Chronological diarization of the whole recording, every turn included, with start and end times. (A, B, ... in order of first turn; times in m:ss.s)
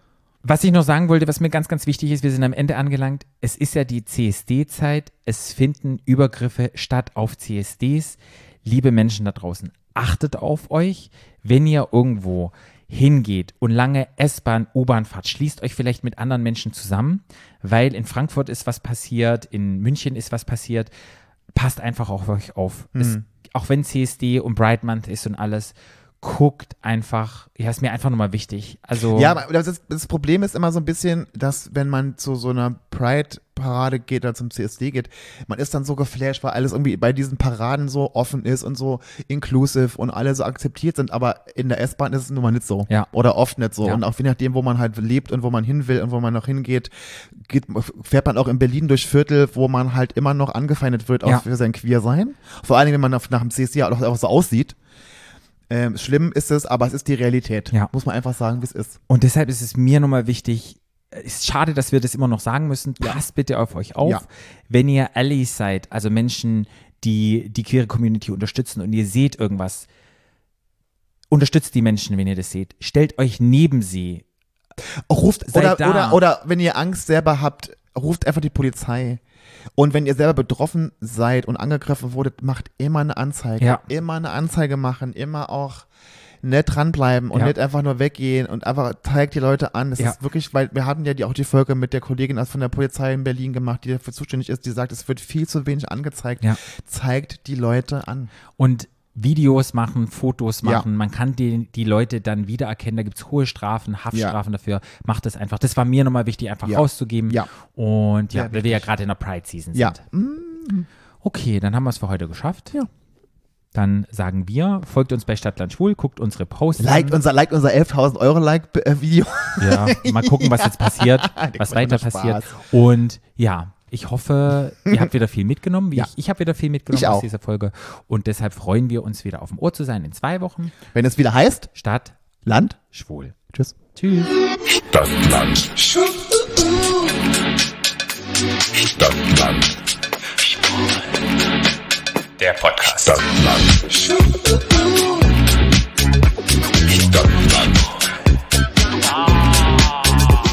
0:00.4-0:20.9 A
0:21.5-0:29.4 A
0:23.0-0:23.2 B
0:29.1-0:54.8 B
0:55.7-0:59.0 B
0:59.1-1:09.9 A
1:11.3-1:14.2 A
1:15.1-1:19.2 B
1:15.5-1:16.2 A
1:19.8-1:25.9 B
1:26.4-1:38.3 B
1:38.6-1:50.0 A
1:44.1-1:44.4 B
1:46.7-1:47.5 B
1:48.3-1:48.9 B
1:49.7-1:50.9 B
1:51.2-1:52.8 A
1:53.7-1:57.2 A
1:56.8-2:02.6 B
1:59.6-2:10.8 A
2:06.9-2:07.3 B
2:10.9-2:11.7 B
2:11.8-2:12.2 A
2:12.4-2:12.8 B
2:12.9-2:13.4 A
2:13.9-2:14.3 A
2:14.9-2:15.9 C
2:18.9-2:19.8 C
2:22.4-2:23.1 A
2:22.9-2:24.2 C
2:26.8-2:28.0 C